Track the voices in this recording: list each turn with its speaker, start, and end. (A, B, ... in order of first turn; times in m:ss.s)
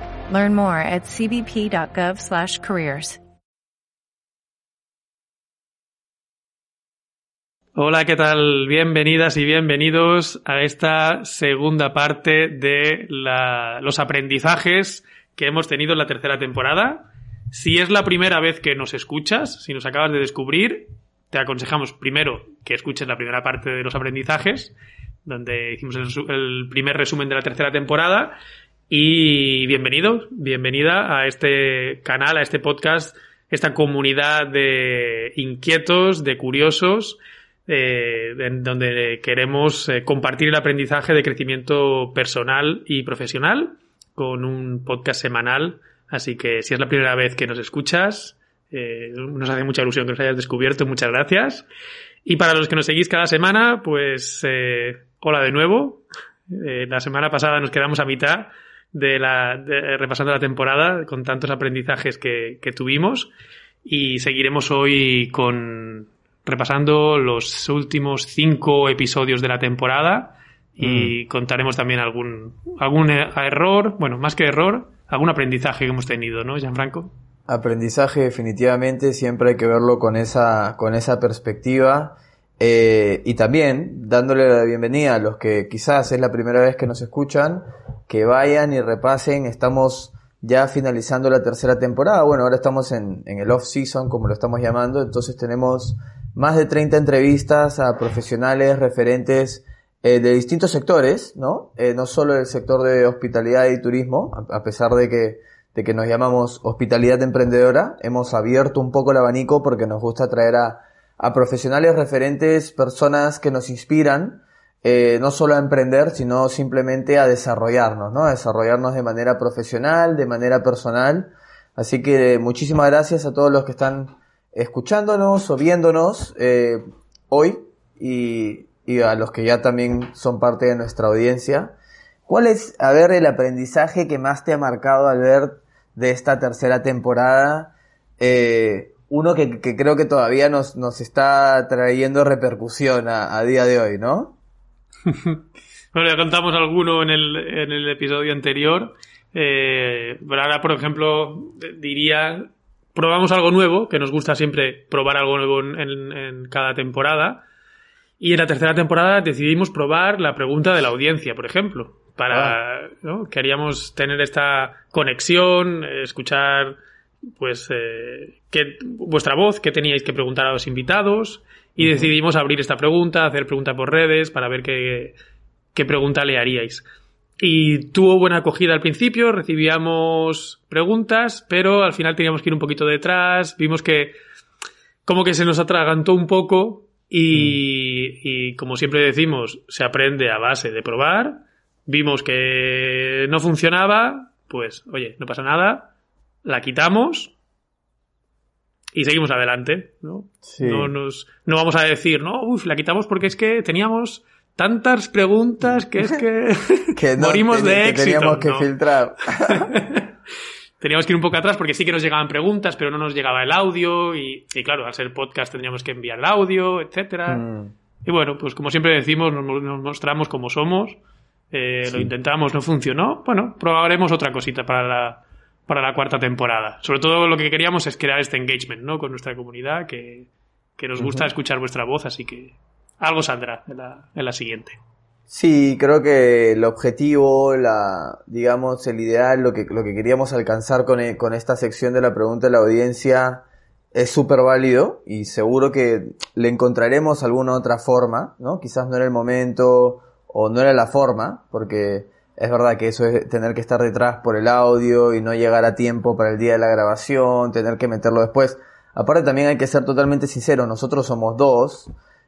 0:00.3-0:03.2 A
0:07.7-0:24.7 B
0:25.2-0:28.4 B
0:28.9-0:51.7 B
0:52.2-1:03.3 B
1:03.8-1:17.1 B
1:10.8-1:11.1 C
1:17.5-2:11.8 C
2:12.3-2:24.3 C
2:25.1-2:25.4 B
2:25.9-2:37.4 B
2:38.2-2:46.8 B
2:42.3-2:42.6 C
2:47.4-2:55.2 B
2:51.8-2:52.1 C
2:55.7-2:56.8 B
2:57.4-3:04.1 B
3:05.1-3:15.9 B
3:07.3-3:07.6 C
3:16.4-3:17.3 B
3:18.9-3:28.7 B
3:20.5-3:20.9 C
3:27.0-3:29.7 C
3:29.4-3:30.1 B
3:30.8-3:37.4 B
3:37.3-3:37.7 C
3:38.0-3:41.0 B
3:41.5-3:54.8 B
3:41.8-3:42.1 C
3:51.0-3:51.3 C
3:55.3-4:21.9 C